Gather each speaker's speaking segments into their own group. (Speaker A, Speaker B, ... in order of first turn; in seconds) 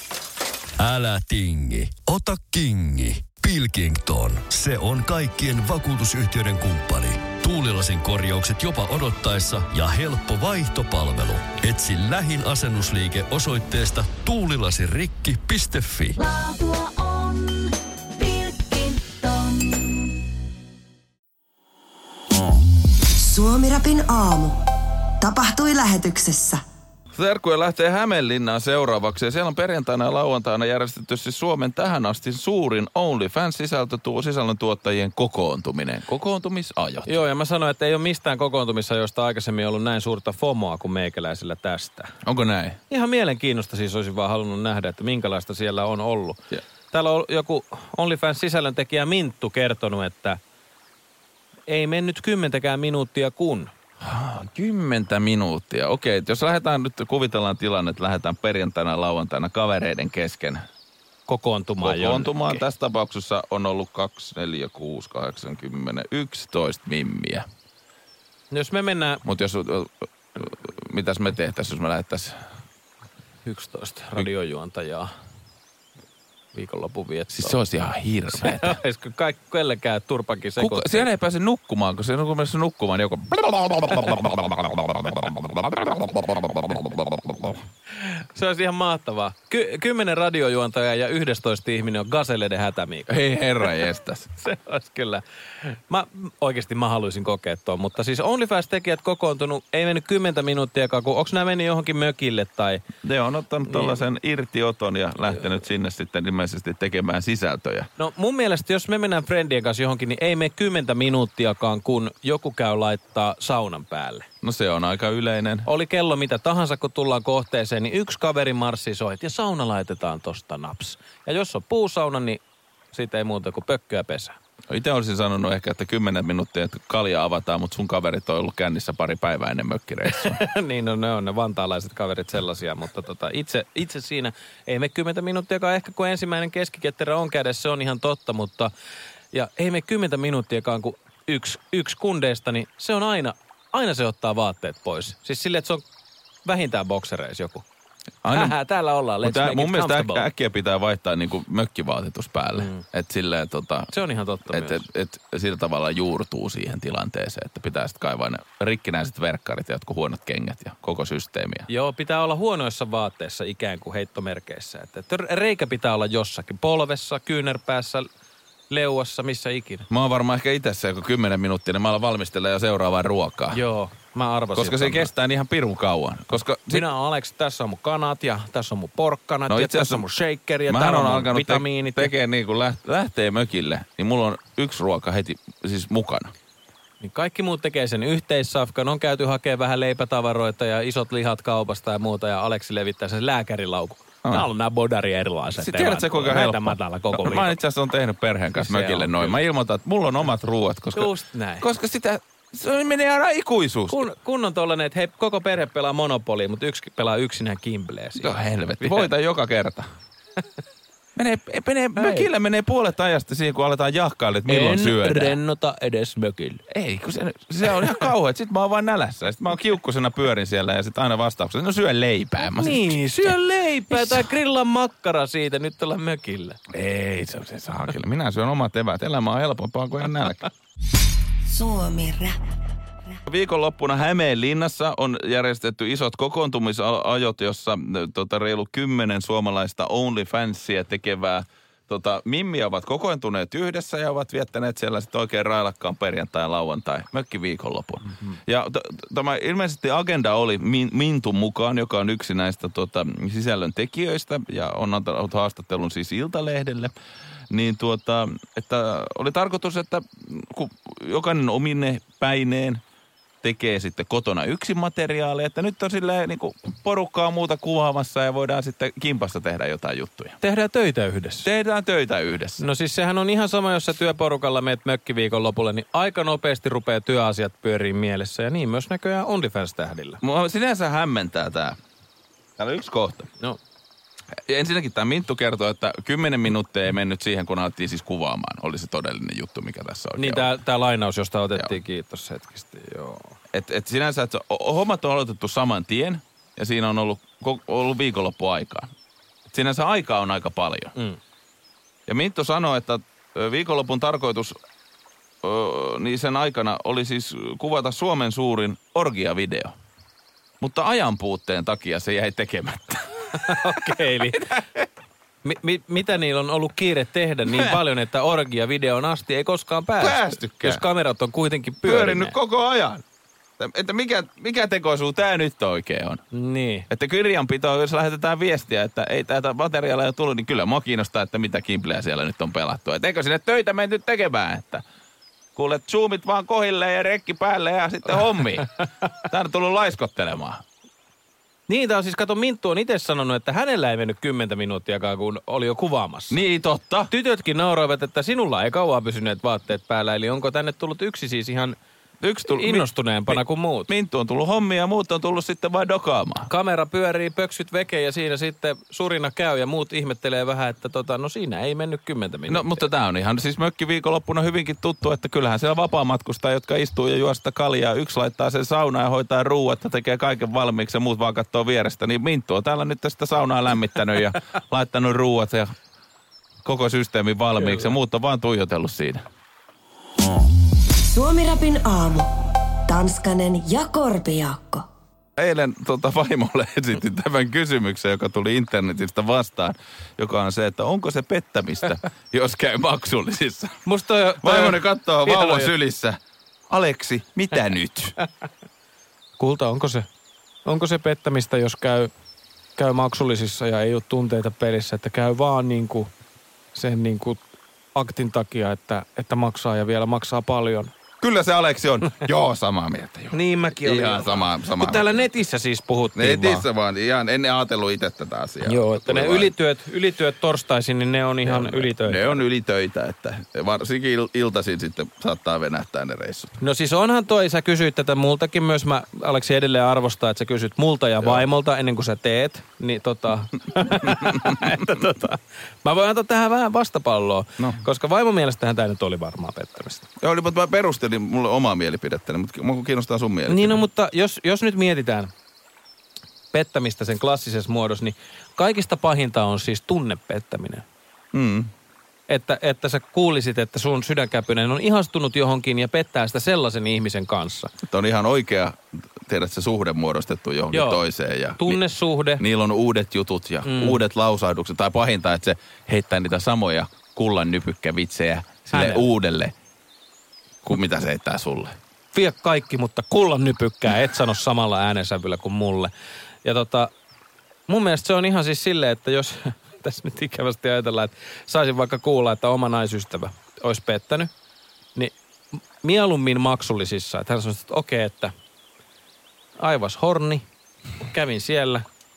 Speaker A: 0.8-16.2
Speaker B: 16.2-20.1
Speaker C: 23.2-24.7, 25.2-26.6, 231.5-232.5, 381.0-382.3, 382.9-384.9
Speaker D: 27.1-37.2, 42.2-42.8, 54.0-60.6, 61.8-67.5, 69.2-72.4, 77.4-78.8, 80.6-87.6, 93.1-94.3, 103.0-107.9, 114.4-115.7, 124.7-130.4, 148.2-148.6, 149.2-153.9, 154.5-161.7, 169.9-173.6, 174.5-176.8, 179.5-180.0, 180.7-186.3, 195.6-204.1, 208.2-209.9, 211.2-215.4, 216.7-223.3, 223.9-224.3, 226.7-230.5, 233.3-256.9, 257.5-262.8, 263.4-270.4, 271.4-272.6, 280.2-281.8, 282.6-283.3, 284.5-290.5, 293.5-298.9, 299.5-300.9, 302.1-304.6, 305.4-309.7, 310.6-313.4, 317.5-317.8, 320.0-320.8, 321.8-323.0, 323.6-326.2, 326.9-334.8, 335.6-338.7, 339.2-340.6, 346.3-347.1, 352.2-356.5, 362.5-375.7, 376.6-379.2, 385.4-393.8, 394.4-396.2, 396.7-398.1, 411.2-415.2, 416.1-419.5, 421.4-426.5, 433.9-434.7, 440.2-443.8, 451.3-451.7, 457.9-461.8, 462.4-469.5, 470.6-471.8
Speaker E: 37.1-42.1, 42.9-46.4, 46.9-50.4, 51.7-53.7, 61.3-62.6, 68.5-69.2, 73.4-75.1, 76.5-77.6, 78.4-81.1, 88.0-93.7, 94.4-102.8, 103.7-104.0, 108.0-114.3, 115.6-124.4, 130.1-138.7, 139.3-145.8, 146.4-147.6, 148.3-150.2, 152.5-152.8, 153.9-154.8, 161.7-168.1, 168.7-169.9, 173.5-175.1, 176.7-182.1, 187.0-197.5, 198.6-199.4, 200.9-201.7, 203.9-209.1, 212.0-212.3, 214.5-216.6, 217.6-218.1, 222.4-226.6, 270.4-271.5, 272.6-280.2, 290.2-293.3, 313.3-314.5, 315.4-322.4, 326.3-326.9, 341.7-346.4, 347.1-351.8, 352.4-353.9, 356.5-362.8, 377.6-377.9, 393.9-395.7, 399.4-400.1, 400.6-402.1, 402.8-406.1, 406.7-407.4, 407.9-410.9, 413.3-416.6, 418.6-422.4, 426.6-440.1, 443.5-445.3, 446.5-450.8, 452.3-457.7, 460.7-461.0, 461.6-462.4, 463.6-464.0, 468.7-469.0, 472.1-475.9, 476.4-476.9, 477.7-484.3, 485.8-488.3, 489.6-490.4, 491.1-491.8